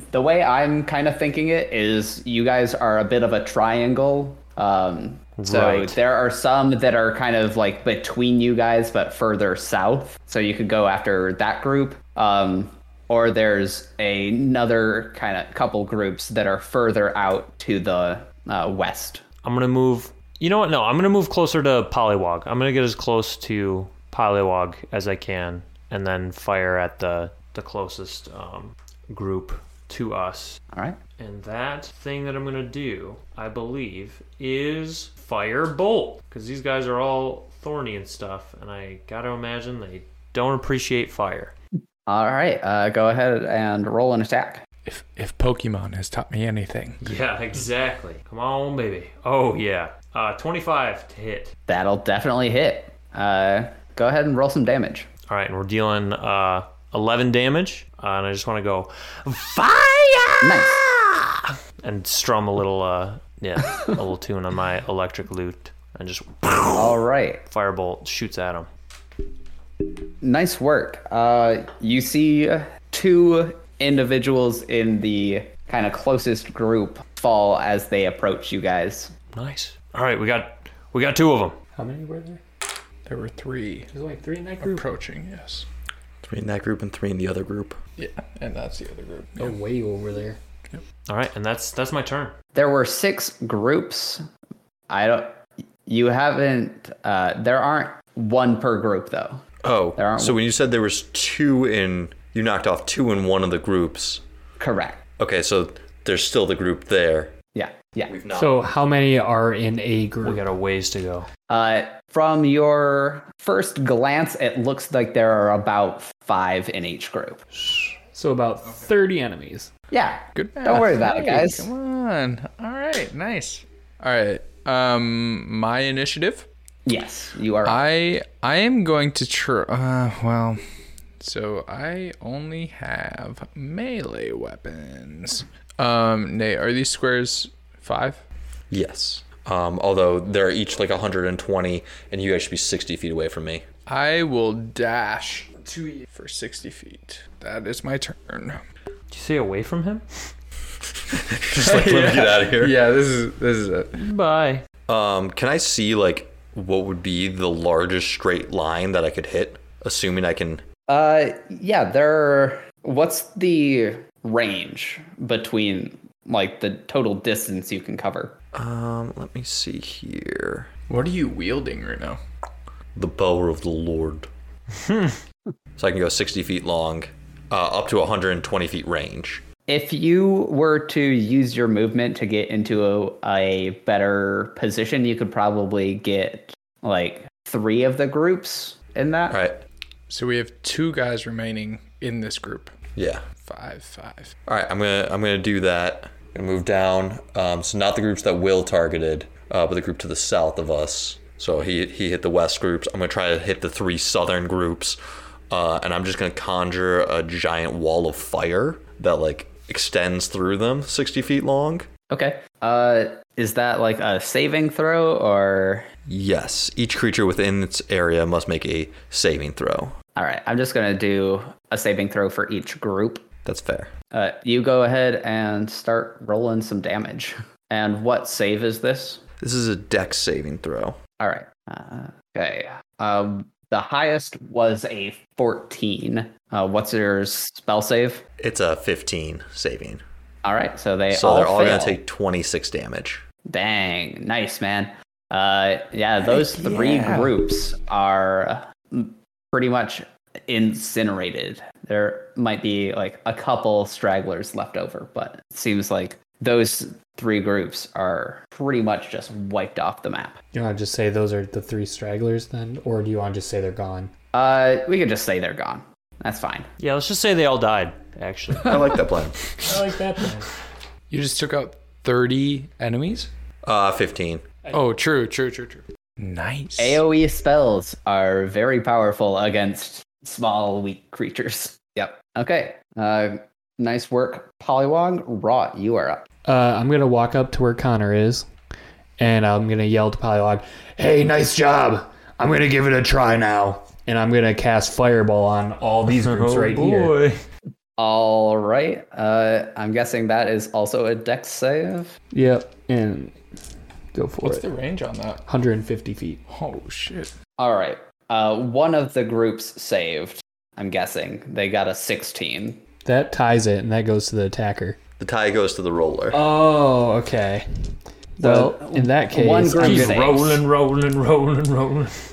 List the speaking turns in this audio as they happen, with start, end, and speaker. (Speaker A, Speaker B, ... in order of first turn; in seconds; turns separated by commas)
Speaker A: 0.1-19.2, Speaker B: 5.4-6.0, Speaker B: 19.4-30.6, Speaker A: 30.7-31.0, Speaker B: 31.2-41.5, Speaker A: 42.1-44.6, Speaker C: 44.9-47.0, Speaker B: 47.0-51.5, Speaker A: 51.7-55.1, Speaker B: 55.3-68.7, Speaker A: 60.4-60.8, Speaker A: 66.7-67.4, Speaker A: 70.2-79.1, Speaker B: 79.3-81.6, Speaker D: 81.8-82.4, Speaker C: 83.1-83.9, Speaker D: 83.9-84.8, Speaker C: 84.6-85.7, Speaker E: 86.2-87.8, Speaker C: 88.0-89.6, Speaker D: 89.4-90.4, Speaker B: 91.1-92.3, Speaker A: 92.5-94.2, Speaker A: 94.9-99.5, Speaker E: 99.6-104.2, Speaker A: 100.0-100.4, Speaker A: 104.6-105.0, Speaker E: 105.2-107.3, Speaker A: 107.5-108.1, Speaker E: 108.1-108.6, Speaker D: 108.3-110.4, Speaker B: 110.2-111.3, Speaker A: 111.5-117.4, Speaker D: 117.5-119.7, Speaker A: 119.9-121.7, Speaker C: 120.3-126.5, Speaker A: 126.9-127.8, Speaker C: 127.6-130.6, Speaker C: 131.2-138.2, Speaker E: 138.7-143.6, Speaker C: 143.9-148.6, Speaker B: 149.1-150.0, Speaker E: 151.1-152.8, Speaker C: 151.5-154.0, Speaker B: 154.0-154.6, Speaker E: 154.9-160.6, Speaker A: 160.9-168.4, Speaker E: 168.5-170.7, Speaker C: 170.9-172.2, Speaker E: 172.9-174.3, Speaker B: 174.8-175.2, Speaker E: 175.8-179.4, Speaker A: 179.7-189.4, Speaker E: 189.3-189.6, Speaker C: 190.1-192.8, Speaker E: 193.0-193.2, Speaker C: 193.4-194.3, Speaker E: 194.5-205.0, Speaker E: 205.5-211.9, Speaker A: 212.1-215.9, Speaker E: 216.1-219.9, Speaker A: 220.2-223.3, Speaker E: 223.4-223.9, Speaker A: 224.1-229.2, Speaker E: 229.4-231.0, Speaker A: 231.2-238.2, Speaker E: 238.4-240.0, Speaker A: 240.4-242.0, Speaker E: 241.1-243.2, Speaker A: 243.4-260.4, Speaker D: 246.8-247.3, Speaker D: 260.5-264.1, Speaker A: 264.3-266.7, Speaker B: 266.8-268.8, Speaker E: 268.6-269.5, Speaker D: 269.6-270.5, Speaker C: 271.1-273.3, Speaker E: 273.6-274.4, Speaker C: 274.7-277.0, Speaker A: 276.8-286.2, Speaker D: 286.4-288.5, Speaker D: 289.2-297.2, Speaker B: 296.2-297.4, Speaker A: 298.0-302.1, Speaker D: 302.3-303.4, Speaker D: 304.1-304.7, Speaker C: 304.4-305.4, Speaker D: 305.5-306.4, Speaker C: 306.5-307.3, Speaker A: 307.6-312.8, Speaker D: 313.1-315.0, Speaker E: 315.2-316.4, Speaker D: 316.3-320.4, Speaker A: 318.4-320.6, Speaker B: 319.8-322.1